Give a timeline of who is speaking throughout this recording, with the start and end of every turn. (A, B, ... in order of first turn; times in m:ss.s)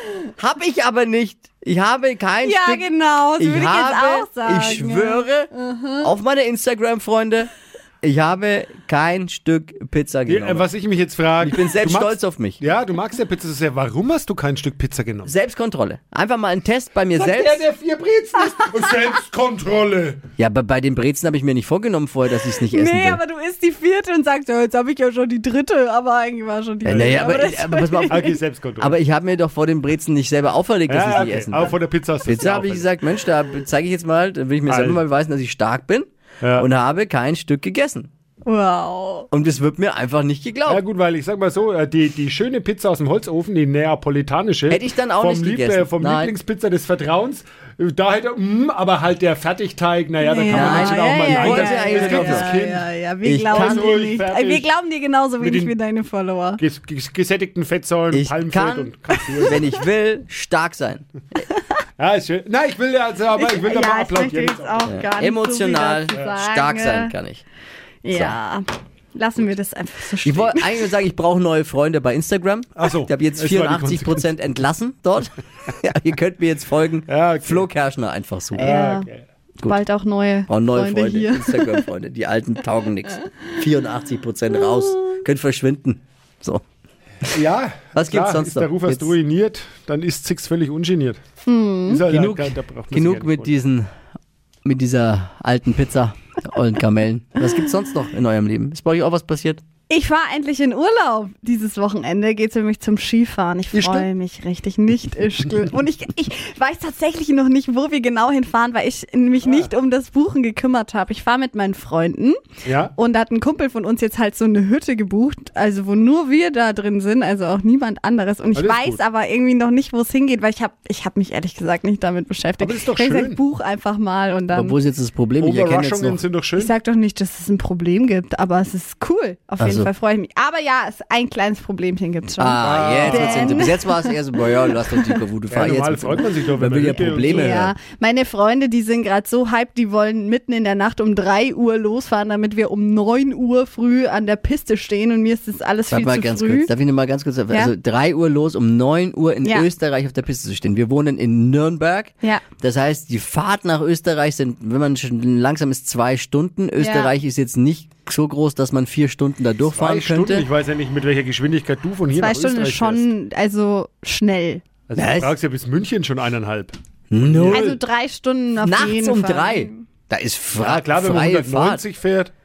0:00.4-0:02.9 A
0:02.4-0:06.1 B
0:03.4-0:07.5 A
0:08.0-0:10.7 A
0:10.3-0:15.3 C
0:11.4-0:12.6 A
0:15.2-0:17.6 A
0:17.2-0:20.2 C
0:20.4-0:23.2 A
0:22.6-0:28.4 B
0:26.8-0:28.3 A
0:26.9-0:27.4 C
0:28.1-0:29.0 C
0:28.8-0:38.1 A
0:30.9-0:32.9 C
0:34.7-0:35.0 C
0:36.4-0:36.7 C
0:38.4-0:39.3 B
0:39.3-0:40.8 A
0:40.7-0:52.9 C
0:44.7-0:46.3 A
0:50.2-0:56.6 B
0:50.5-0:52.5 A
0:53.2-0:54.0 A
0:53.5-0:54.7 C
0:55.4-0:55.7 C
0:56.6-0:59.6 C
0:58.1-0:58.9 A
0:59.4-1:01.1 A
1:02.0-1:05.0 C
1:03.3-1:07.1 B
1:04.9-1:07.4 A
1:08.0-1:10.8 B
1:08.1-1:08.4 A
1:10.2-1:18.7 A
1:12.8-1:14.2 C
1:17.1-1:17.7 C
1:18.6-1:19.1 B
1:18.6-1:19.2 C
1:19.6-1:21.9 B
1:20.5-1:26.6 A
1:27.3-1:31.2 C
1:28.0-1:29.2 A
1:31.5-1:32.1 B
1:31.9-1:33.6 C
1:32.1-1:33.9 A
1:34.6-1:39.6 A
1:39.9-1:52.4 B
1:43.7-1:44.1 C
1:49.4-1:49.7 C
1:52.6-1:52.9 C
1:53.0-2:04.8 B
1:58.6-1:59.0 C
2:02.6-2:03.4 C
2:04.5-2:06.2 A
2:05.4-2:06.7 C
2:06.6-2:15.2 B
2:09.6-2:09.9 A
2:12.3-2:17.7 A
2:12.6-2:13.6 C
2:15.5-2:17.6 C
2:17.1-2:26.7 B
2:25.9-2:40.5 A
2:36.8-2:37.1 B
2:39.7-2:43.1 C
2:42.1-2:44.6 B
2:44.9-2:47.8 C
2:45.0-2:45.4 A
2:47.1-2:47.6 A
2:47.4-2:49.9 B
2:48.6-2:51.8 A
2:50.5-2:52.3 C